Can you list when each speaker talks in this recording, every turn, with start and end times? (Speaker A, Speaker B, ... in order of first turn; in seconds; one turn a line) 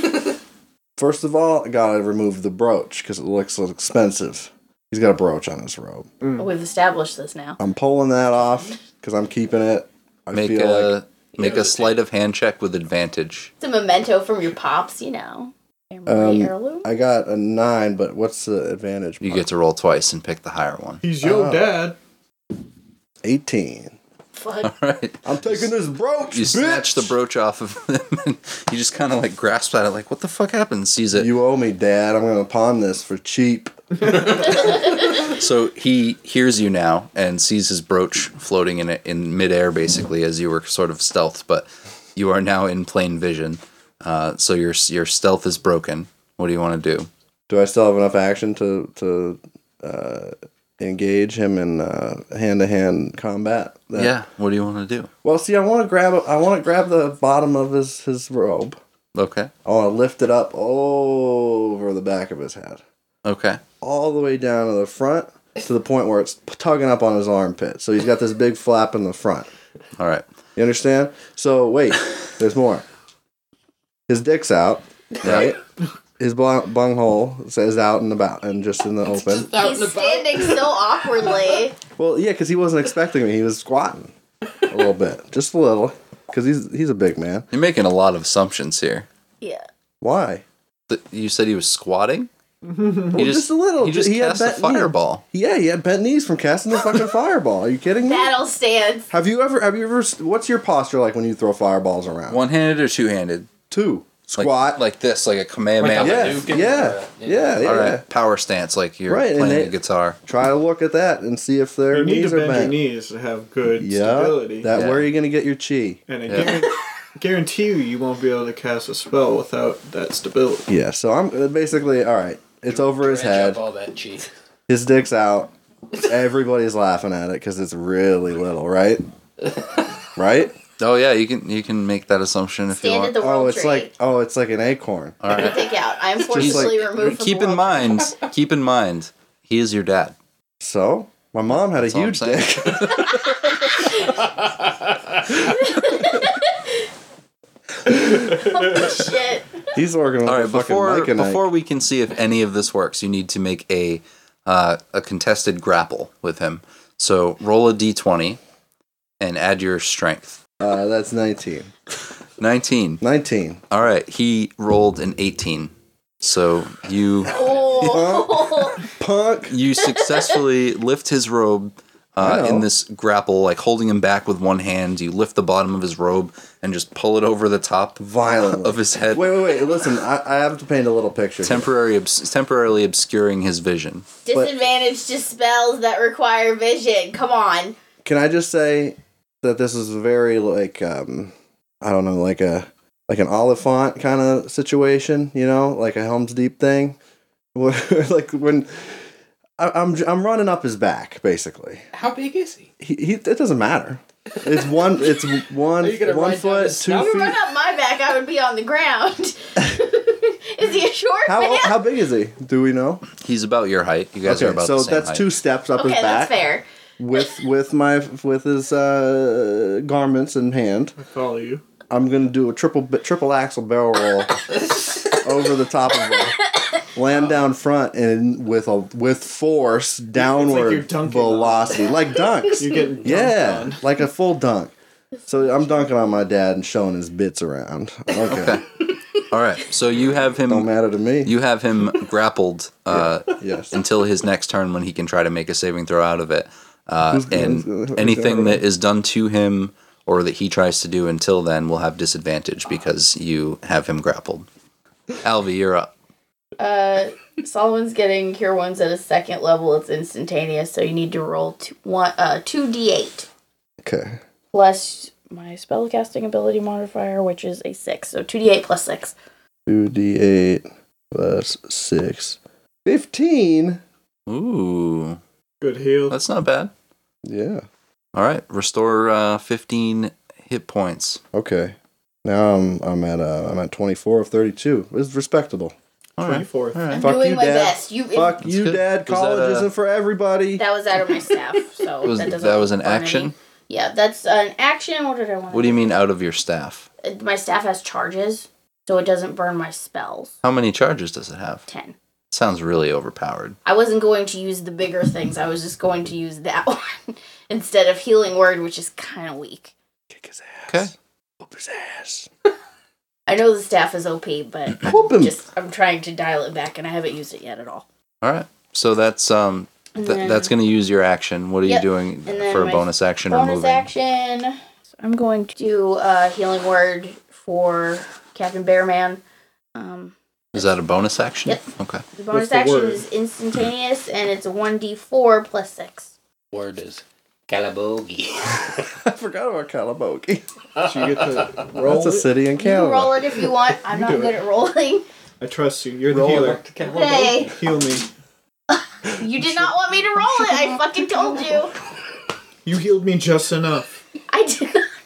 Speaker A: 1.0-6.1
Speaker B: 6.2-6.5
Speaker C: 6.4-7.6
Speaker A: 7.6-11.0
Speaker D: 10.3-13.5
Speaker E: 11.3-11.9
Speaker C: 13.6-16.9
Speaker A: 16.1-19.5
Speaker D: 19.2-21.0
Speaker B: 21.0-22.0
Speaker A: 21.2-21.8
Speaker A: 23.2-24.0
Speaker C: 24.4-24.7
Speaker D: 24.6-25.7
Speaker A: 25.2-27.1
Speaker D: 26.3-31.3
Speaker A: 31.1-34.4
Speaker D: 35.0-47.1
Speaker A: 47.5-54.1
Speaker D: 54.0-55.1
Speaker A: 55.2-58.8
Speaker D: 59.1-59.5
Speaker A: 59.6-62.8
Speaker D: 63.2-63.6
Speaker A: 63.8-69.5
Speaker D: 70.0-70.2
Speaker A: 70.6-72.8
Speaker A: 74.1-75.6
Speaker D: 75.2-75.5
Speaker A: 76.2-79.5
Speaker E: 79.1-81.5
Speaker C: 79.5-81.8
Speaker A: 82.0-84.1
Speaker A: 84.7-87.5
Speaker D: 87.5-89.1
Speaker C: 89.4-89.7
Speaker A: 90.0-90.4
Speaker D: 90.9-92.3
Speaker B: 92.6-93.2
Speaker A: 93.1-98.3
Speaker D: 93.1-95.2
Speaker C: 98.1-99.1
Speaker A: 99.1-102.4
Speaker D: 102.3-103.5
Speaker A: 103.7-104.8
Speaker D: 104.4-106.5
Speaker E: 105.8-107.6
Speaker A: 106.0-108.0
Speaker D: 107.6-110.2
Speaker A: 109.1-112.8
Speaker B: 111.9-114.7
Speaker A: 113.8-116.0
Speaker D: 114.7-115.1
Speaker B: 116.1-120.7
Speaker D: 116.3-116.6
Speaker A: 120.7-123.6
Speaker E: 122.7-124.3
Speaker A: 124.7-125.5
Speaker A: 126.0-129.0
Speaker A: 130.2-130.5
Speaker D: 130.8-133.2
Speaker C: 132.7-133.9
Speaker A: 133.2-135.4
Speaker D: 135.2-135.6
Speaker C: 135.3-138.1
Speaker A: 136.2-136.8
Speaker D: 136.3-140.2
Speaker A: 140.6-143.9
Speaker D: 141.7-143.1
Speaker C: 143.7-144.2
Speaker E: 144.4-145.3
Speaker C: 145.3-146.8
Speaker C: 148.1-149.6
Speaker A: 149.7-151.5
Speaker D: 150.2-158.4
Speaker D: 159.2-160.4
Speaker A: 160.6-161.7
Speaker D: 162.4-163.0
Speaker A: 163.0-163.6
Speaker D: 163.7-167.4
Speaker C: 167.3-168.9
Speaker A: 167.6-169.6
Speaker D: 169.5-178.1
Speaker A: 172.2-172.7
Speaker A: 178.0-181.7
Speaker D: 178.6-179.6
Speaker D: 181.4-184.1
Speaker C: 184.3-187.8
Speaker A: 184.3-184.6
Speaker A: 188.0-197.0
Speaker A: 197.6-199.0
Speaker A: 199.6-201.8
Speaker E: 201.9-202.7
Speaker A: 202.8-207.4
Speaker E: 205.8-207.4
Speaker C: 206.9-211.8
Speaker A: 211.2-213.0
Speaker D: 213.2-215.3
Speaker A: 214.2-216.5
Speaker C: 215.8-216.7
Speaker A: 217.0-221.0
Speaker B: 221.0-221.6
Speaker A: 221.9-224.5
Speaker A: 225.0-226.4
Speaker C: 226.1-226.7
Speaker A: 226.9-234.7
Speaker B: 230.2-231.9
Speaker B: 232.6-233.8
Speaker A: 235.3-238.6
Speaker D: 238.3-240.7
Speaker A: 240.5-241.3
Speaker D: 241.2-254.5
Speaker A: 242.9-243.8
Speaker A: 247.1-248.6
Speaker D: 255.2-255.9
Speaker C: 256.6-263.3
Speaker A: 263.8-264.2
Speaker C: 264.5-269.1
Speaker A: 269.7-273.8
Speaker D: 274.3-275.2
Speaker B: 275.6-276.2
Speaker D: 276.1-276.7
Speaker A: 277.2-277.6
Speaker D: 278.1-281.2
Speaker A: 281.3-285.8
Speaker D: 286.2-287.1
Speaker B: 286.2-287.0
Speaker C: 286.9-288.4
Speaker A: 287.0-290.6
Speaker D: 288.4-289.7
Speaker C: 290.6-296.0
Speaker D: 292.0-293.3
Speaker D: 295.5-296.9
Speaker C: 297.0-300.4
Speaker D: 300.4-301.7
Speaker C: 301.7-301.9
Speaker D: 302.3-303.6
Speaker C: 303.6-309.7
Speaker A: 310.1-312.3
Speaker C: 313.3-317.9
Speaker A: 314.8-315.4
Speaker D: 318.2-323.9
Speaker C: 320.0-320.5
Speaker C: 321.6-329.2
Speaker C: 329.8-330.1
Speaker D: 330.5-332.0
Speaker C: 332.2-336.1
Speaker B: 332.3-333.0
Speaker E: 336.5-338.9
Speaker A: 338.9-340.4
Speaker E: 340.8-341.6
Speaker B: 340.8-342.3
Speaker A: 341.7-343.2
Speaker C: 342.6-345.1
Speaker B: 343.9-344.4
Speaker B: 345.4-346.7
Speaker E: 346.1-347.5
Speaker C: 346.8-347.6
Speaker B: 347.5-348.1
Speaker C: 348.7-351.8
Speaker B: 349.4-349.7
Speaker B: 352.6-354.0
Speaker C: 354.3-354.9